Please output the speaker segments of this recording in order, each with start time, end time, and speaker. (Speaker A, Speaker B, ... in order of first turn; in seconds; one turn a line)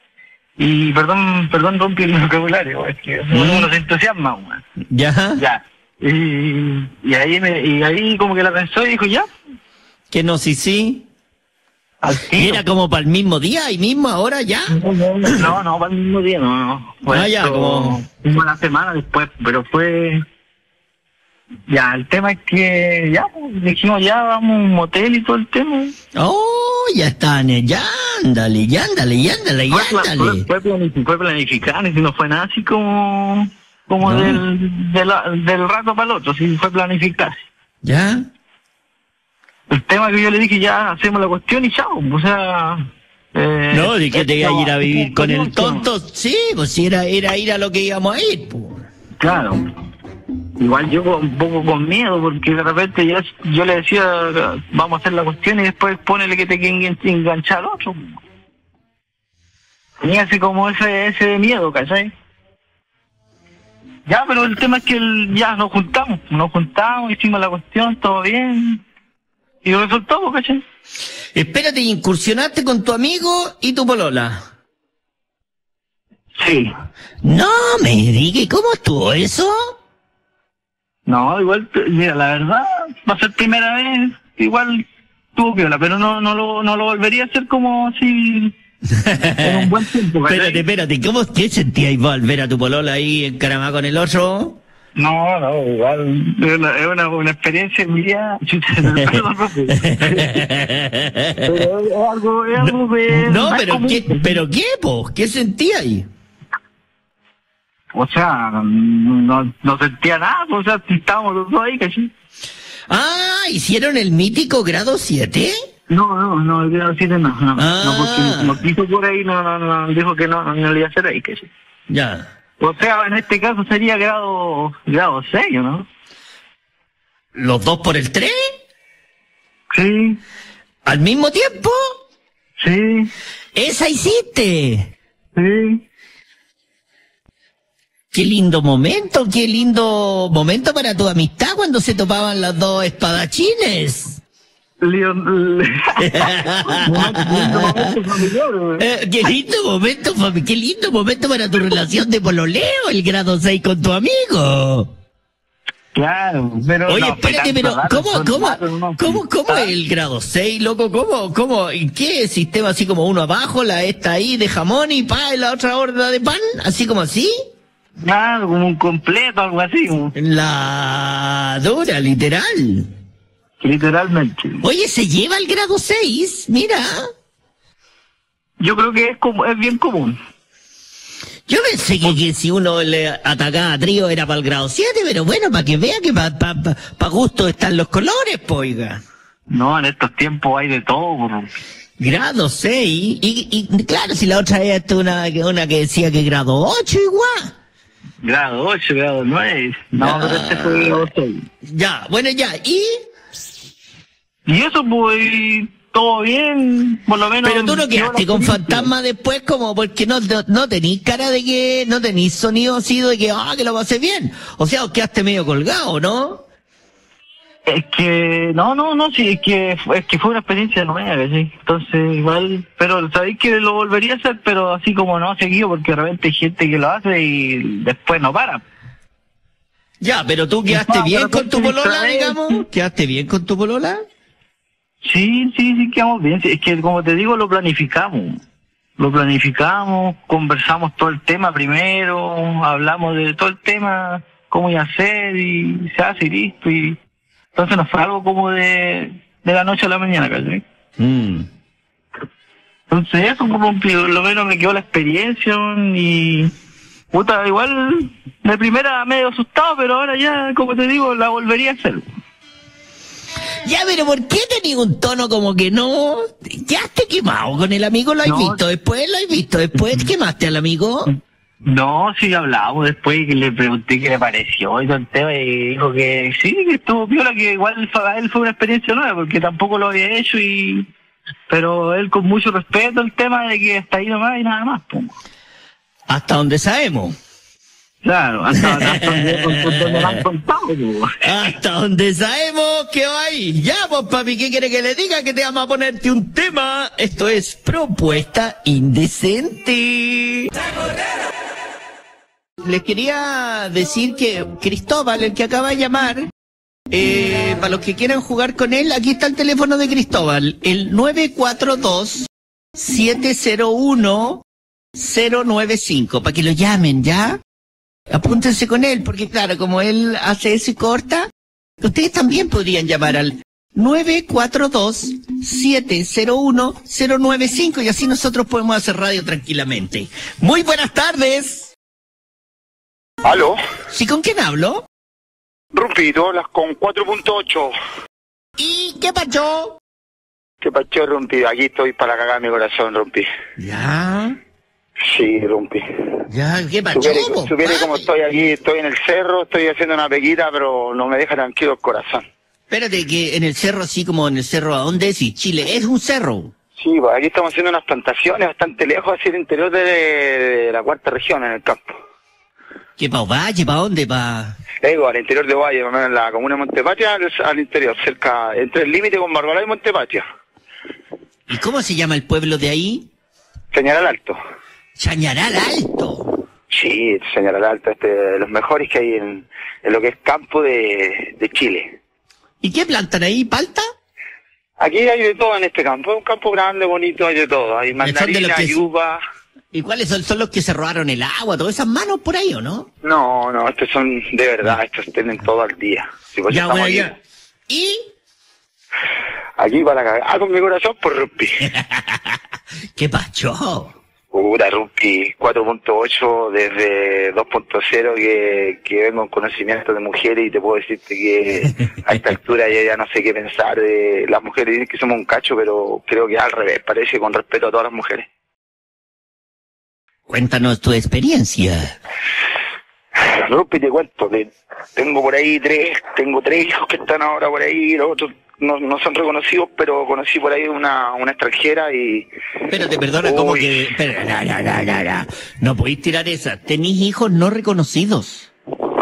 Speaker A: 0.6-4.6
Speaker B: 3.3-3.7
Speaker B: 4.9-5.4
Speaker A: 5.4-9.3
Speaker B: 10.1-11.1
Speaker A: 12.0-12.6
Speaker B: 12.4-14.8
Speaker A: 14.7-20.2
Speaker B: 17.1-18.0
Speaker A: 21.7-25.9
Speaker B: 26.1-30.5
Speaker A: 29.7-37.5
Speaker B: 34.0-34.4
Speaker B: 37.8-38.3
Speaker A: 39.7-45.9
Speaker B: 43.7-48.9
Speaker A: 49.2-49.6
Speaker A: 50.6-58.2
Speaker A: 60.0-62.1
Speaker A: 64.1-68.8
Speaker A: 69.6-70.6
Speaker B: 71.3-74.5
Speaker A: 76.4-76.7
Speaker B: 77.2-79.8
Speaker A: 81.1-88.5
Speaker B: 88.9-89.7
Speaker A: 89.4-90.6
Speaker B: 90.3-94.6
Speaker A: 95.0-100.4
Speaker B: 99.8-101.6
Speaker A: 101.5-104.4
Speaker B: 102.6-106.1
Speaker A: 107.9-112.1
Speaker B: 112.9-115.6
Speaker A: 115.9-121.5
Speaker B: 117.6-118.6
Speaker B: 121.9-122.3
Speaker A: 122.6-125.9
Speaker B: 127.3-128.3
Speaker A: 129.7-130.2
Speaker B: 130.8-131.9
Speaker A: 132.6-133.1
Speaker B: 133.6-134.9
Speaker A: 135.3-135.8
Speaker B: 138.1-144.2
Speaker A: 144.8-148.8
Speaker B: 146.0-148.1
Speaker B: 148.8-154.9
Speaker A: 155.9-159.7
Speaker B: 156.9-167.3
Speaker A: 168.0-170.2
Speaker B: 170.2-172.9
Speaker A: 173.6-174.6
Speaker B: 174.6-177.1
Speaker A: 178.6-180.2
Speaker B: 181.5-189.0
Speaker A: 189.5-191.5
Speaker B: 192.0-197.5
Speaker A: 198.2-201.4
Speaker B: 200.0-201.1
Speaker B: 201.7-203.0
Speaker A: 204.5-208.9
Speaker B: 207.4-216.4
Speaker A: 217.7-228.7
Speaker B: 230.0-234.0
Speaker A: 230.7-232.6
Speaker A: 235.0-238.4
Speaker A: 239.0-247.0
Speaker A: 247.6-250.6
Speaker B: 251.0-251.5
Speaker A: 252.9-256.5
Speaker A: 257.1-262.1
Speaker B: 263.6-271.1
Speaker A: 268.2-268.6
Speaker A: 271.7-280.9
Speaker A: 281.5-285.2
Speaker B: 286.1-287.2
Speaker A: 288.0-291.2
Speaker B: 288.7-290.1
Speaker B: 291.2-300.5
Speaker B: 302.6-306.3
Speaker B: 306.9-314.4
Speaker B: 315.0-317.4
Speaker B: 318.1-321.3
Speaker B: 321.8-331.7
Speaker C: 333.2-333.6
Speaker B: 333.9-334.9
Speaker C: 335.7-337.7
Speaker B: 338.6-339.8
Speaker C: 340.6-343.3
Speaker B: 343.6-344.4
Speaker C: 345.0-345.8
Speaker B: 346.3-348.1
Speaker C: 346.9-352.2
Speaker B: 352.7-356.5
Speaker C: 356.8-362.0
Speaker B: 363.0-364.6
Speaker C: 364.8-370.2
Speaker B: 371.5-373.1
Speaker C: 373.7-374.4
Speaker B: 375.0-376.3
Speaker C: 376.7-382.0
Speaker B: 382.6-383.9
Speaker C: 384.8-389.2
Speaker B: 388.0-388.8
Speaker B: 389.7-392.9
Speaker C: 393.0-397.1
Speaker B: 396.5-397.1
Speaker B: 397.7-398.1
Speaker C: 399.6-401.6
Speaker B: 401.6-402.4
Speaker B: 403.0-404.0
Speaker C: 404.3-418.3
Speaker B: 420.3-422.0
Speaker C: 423.2-432.3
Speaker B: 432.7-438.5
Speaker C: 433.2-433.8